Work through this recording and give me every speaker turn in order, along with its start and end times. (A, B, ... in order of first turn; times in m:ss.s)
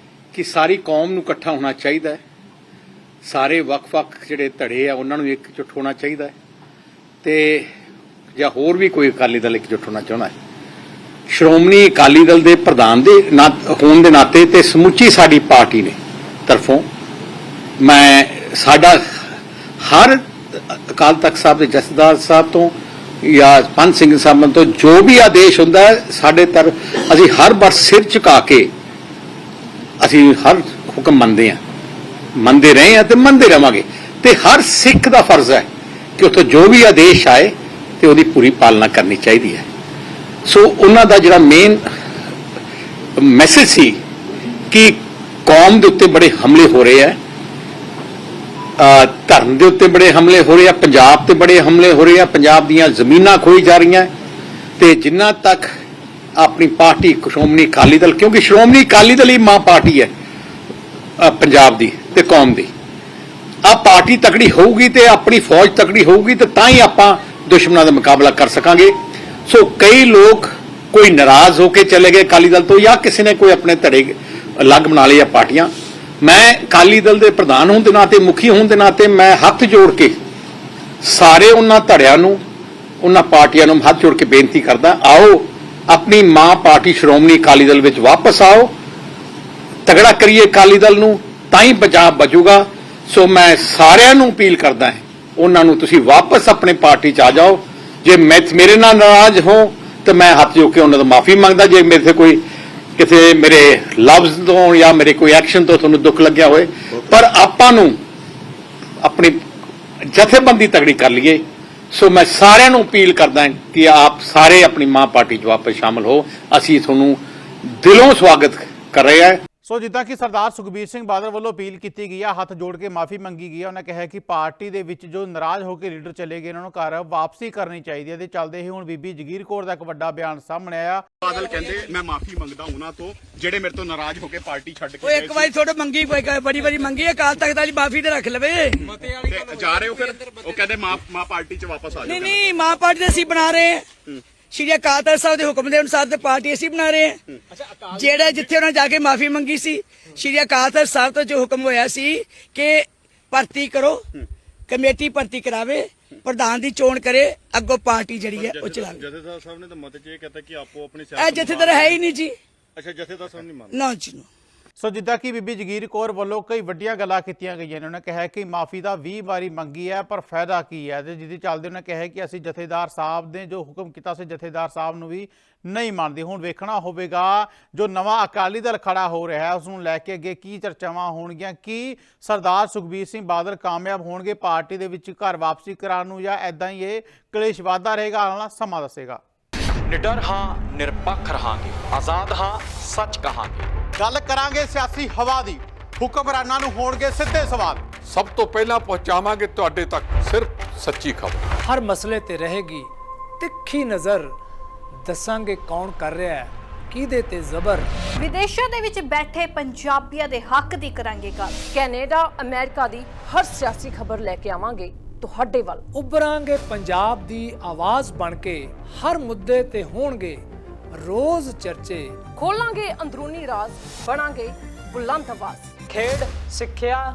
0:00.3-0:02.2 A
0:03.2-0:06.3 A
0:07.2-0:07.7 A
0:08.4-0:10.3 A
0:11.3-0:16.8 A
0:17.8-0:19.2 A
0:19.8-0:28.7 A
0:30.0-0:31.6 A
0:32.3-0:35.7 A
0:36.2-0:39.7 A
0:40.4-0:41.8 A
0:43.2-0:44.0 A
0:44.7-0:47.2 A
0:48.8-0:54.1 A
0:54.8-0:55.7 A
0:56.4-1:00.1 A
1:01.2-1:02.7 A
1:03.6-1:09.0 A
1:09.5-1:20.2 A
1:21.0-1:22.4 A
1:23.0-1:28.7 A
1:29.8-1:42.4 A
1:43.0-1:48.0 A
1:49.0-1:49.4 A
1:50.0-1:59.4 A
1:59.6-2:11.0 B
2:11.2-2:15.5 C
2:15.0-2:19.0 D
2:19.1-2:22.4 C
2:22.0-2:23.9 D
2:24.5-2:27.2 D
2:27.8-2:34.0 D
2:34.7-2:39.1 D
2:38.4-2:39.0 C
2:38.5-2:41.9 E
2:41.2-2:42.0 C
2:41.2-2:42.3 D
2:42.7-2:43.6 E
2:43.7-2:44.3 D
2:44.8-3:09.2 B
3:09.9-3:13.7 F
3:14.0-3:17.8 B
3:18.0-3:21.4 G
3:21.6-3:24.3 H
3:25.0-3:27.9 H
3:28.2-3:31.7 I
3:31.7-3:35.8 J
3:35.9-3:40.4 H
3:41.0-3:42.2 H
3:42.4-3:46.4 J